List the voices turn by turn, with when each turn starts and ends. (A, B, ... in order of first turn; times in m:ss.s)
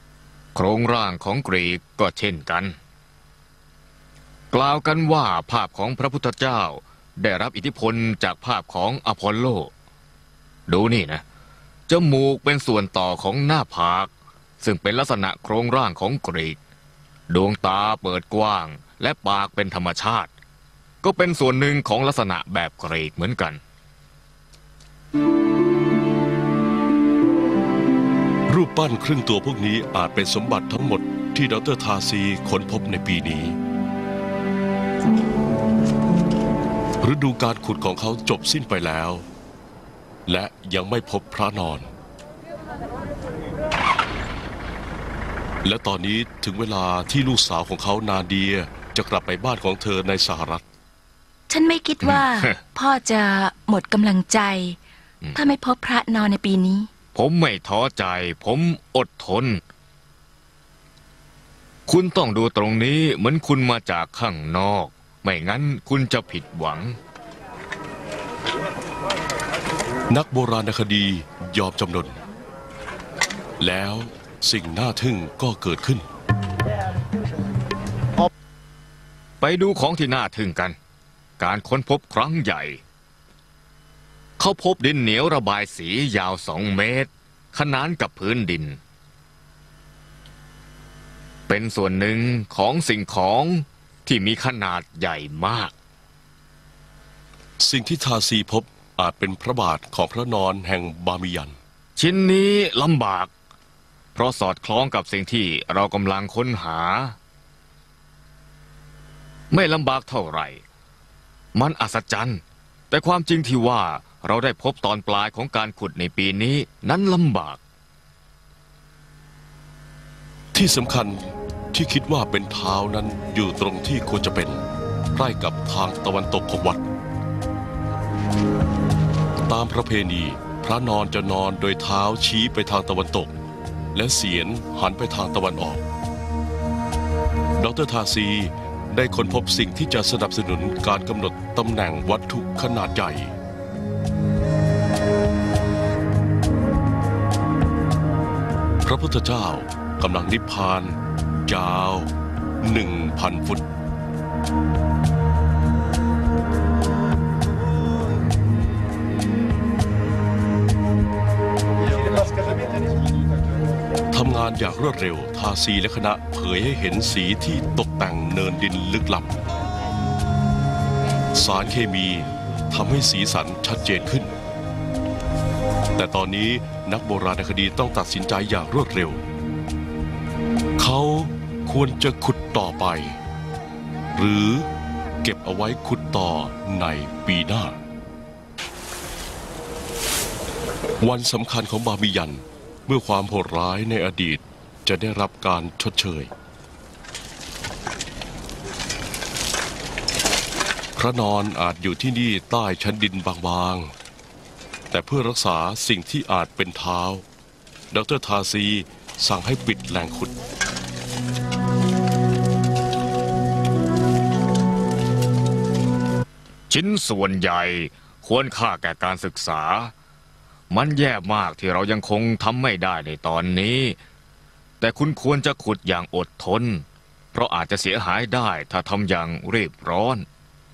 0:00.5-0:02.8 A
0:04.5-0:09.7 A
0:10.7-0:11.2 A
0:11.9-0:16.6 A
0:17.3-0:20.3 A
0:21.0-0:23.6 A
0:28.5-0:33.6 B
0:37.0-0:39.2 B
0:40.3-0:41.9 B
0:45.6-0:50.6 B
0:51.5-0:54.8 C
0:52.0-0:52.6 A
0:55.4-0:56.9 C
0:57.1-0:59.6 A
1:01.9-1:07.0 A
1:10.1-1:12.2 B
1:13.6-1:16.0 B
1:19.4-1:20.8 A
1:21.4-1:22.8 A
1:24.4-1:28.8 A
1:31.5-1:35.7 A
1:37.6-1:41.6 B
1:42.0-1:43.3 A
1:44.1-1:47.2 A
1:49.5-1:50.6 A
1:51.6-1:57.6 A
2:00.5-2:04.6 B
2:05.1-2:06.8 B
2:09.5-2:13.3 B
2:13.9-2:15.8 B
2:17.6-2:23.4 B
2:28.8-2:32.1 B
2:32.6-2:33.6 B
2:44.1-2:49.4 B
2:51.3-2:54.3 B
2:56.0-2:59.2 B
3:00.8-3:03.2 B
3:04.1-3:04.7 B
3:05.2-3:07.8 B
3:11.0-3:16.3 B
3:21.0-3:23.9 B
3:24.9-3:27.2 B
3:27.9-3:30.3 B
3:36.7-3:39.9 A
3:40.7-3:44.0 A
3:44.8-3:50.2 A